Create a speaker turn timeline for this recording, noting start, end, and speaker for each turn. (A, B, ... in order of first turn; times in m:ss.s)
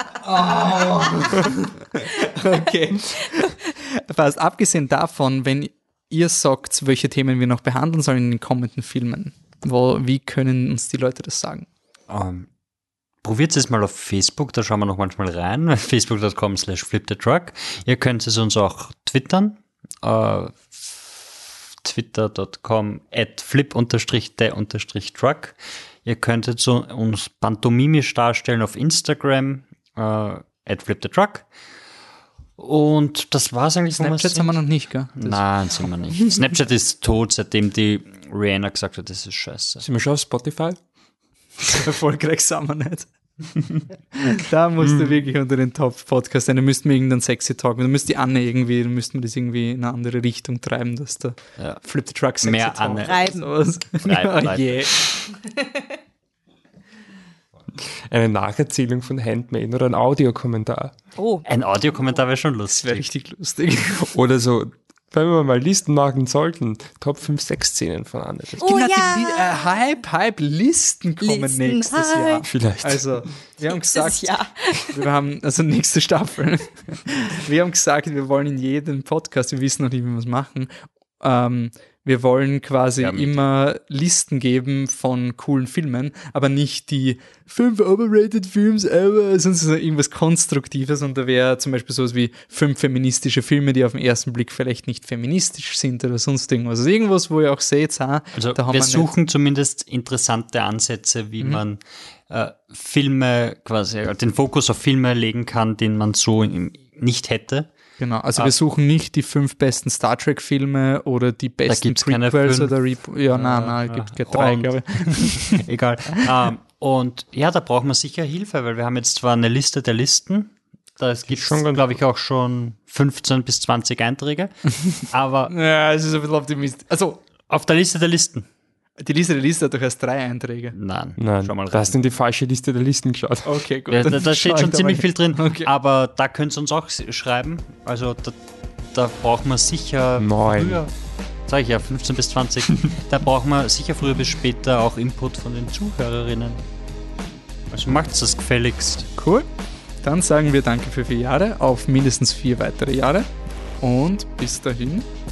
0:00.1-0:11.7 A
0:12.1-0:12.5 B
0:13.2-0:31.5 B
0:32.6-0:34.6 B
0:34.0-0:35.4 A
0:35.1-0:39.8 B
0:39.8-0:40.8 C
0:41.8-0:43.1 A
0:44.1-0:55.0 A
0:44.8-0:45.2 C
0:51.6-0:51.8 B
0:52.4-0:53.3 B
0:53.0-0:53.5 D
0:54.0-0:55.1 B
0:55.4-0:55.8 D
0:57.8-1:00.9 C
1:01.2-1:01.4 D
1:01.4-1:03.1 B
1:02.8-1:04.1 A
1:04.1-1:08.8 C
1:08.6-1:09.8 D
1:08.6-1:39.1 A
1:11.2-1:12.4 D
1:12.5-1:13.3 C
1:13.9-1:15.0 D
1:23.0-1:23.4 B
1:38.3-1:47.7 B
1:48.0-1:55.6 A
1:51.7-2:05.5 B
2:01.3-2:01.9 C
2:05.5-2:07.2 A
2:07.5-2:08.5 B
2:09.0-2:10.7 A
2:10.7-2:12.0 B
2:11.2-2:13.5 C
2:13.4-2:15.7 A
2:13.9-2:18.4 B
2:18.9-2:20.9 B
2:20.2-2:20.8 C
2:21.5-2:26.6 B
2:27.7-2:29.1 B
2:29.2-2:29.4 A
2:30.0-2:33.3 A
2:33.8-2:35.1 A